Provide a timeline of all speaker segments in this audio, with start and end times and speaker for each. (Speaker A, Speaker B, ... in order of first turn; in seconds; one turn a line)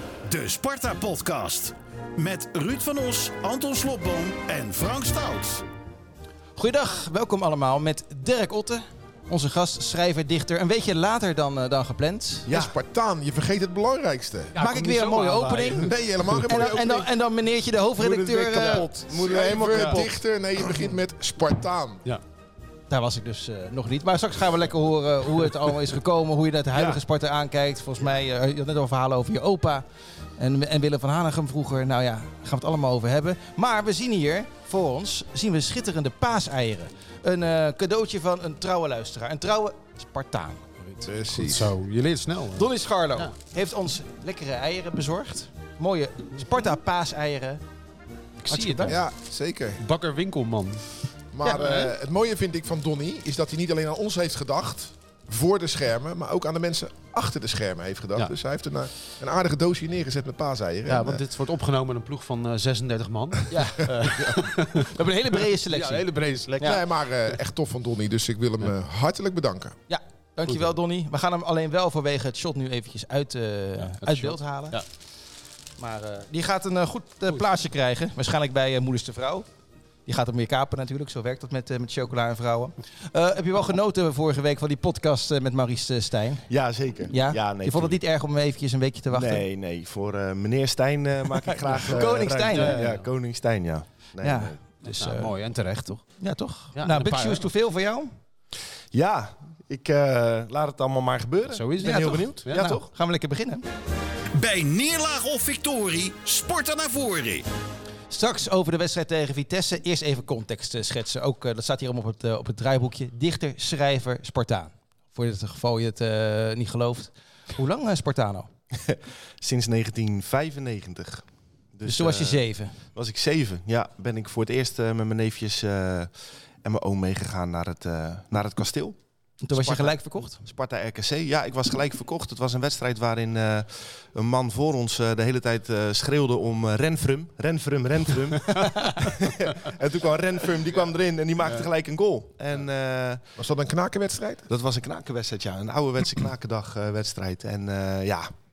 Speaker A: 0.2-5.6
Speaker B: 6.5-12.5
Speaker C: 12.5-12.7
Speaker D: 12.5-14.6
Speaker E: 14.5-15.9
Speaker B: 14.6-15.9
Speaker D: 15.6-17.1
Speaker B: 16.4-19.0
Speaker E: 18.0-18.9
Speaker C: 18.1-20.1
Speaker D: 19.0-22.1
Speaker E: 19.7-20.0
Speaker B: 22.9-29.8
Speaker B: 30.4-41.0
Speaker D: 41.0-41.7
Speaker E: 41.1-43.3
Speaker B: 42.5-47.6
Speaker E: 48.4-49.0
Speaker B: 48.5-49.0
Speaker D: 48.9-49.8
Speaker E: 49.8-50.8
Speaker D: 51.3-61.2
Speaker E: 51.5-51.9
Speaker E: 60.9-66.9
Speaker B: 63.5-63.9
Speaker B: 64.7-66.0
Speaker D: 66.6-69.8
Speaker B: 69.9-74.8
Speaker E: 73.8-74.8
Speaker B: 75.8-79.5
Speaker B: 80.0-86.5
Speaker C: 86.5-88.0
Speaker B: 87.1-89.5
Speaker C: 89.1-94.6
Speaker B: 91.5-92.8
Speaker E: 92.5-93.1
Speaker B: 94.2-95.3
Speaker E: 94.8-96.0
Speaker B: 96.2-98.1
Speaker E: 96.7-97.4
Speaker C: 98.9-102.9
Speaker E: 101.5-102.6
Speaker B: 101.8-103.7
Speaker A: 104.3-107.5
Speaker B: 108.1-118.5
Speaker C: 118.8-129.0
Speaker B: 121.8-122.7
Speaker B: 129.4-130.4
Speaker C: 129.5-143.2
Speaker E: 141.4-141.7
Speaker D: 143.4-144.5
Speaker C: 144.5-148.3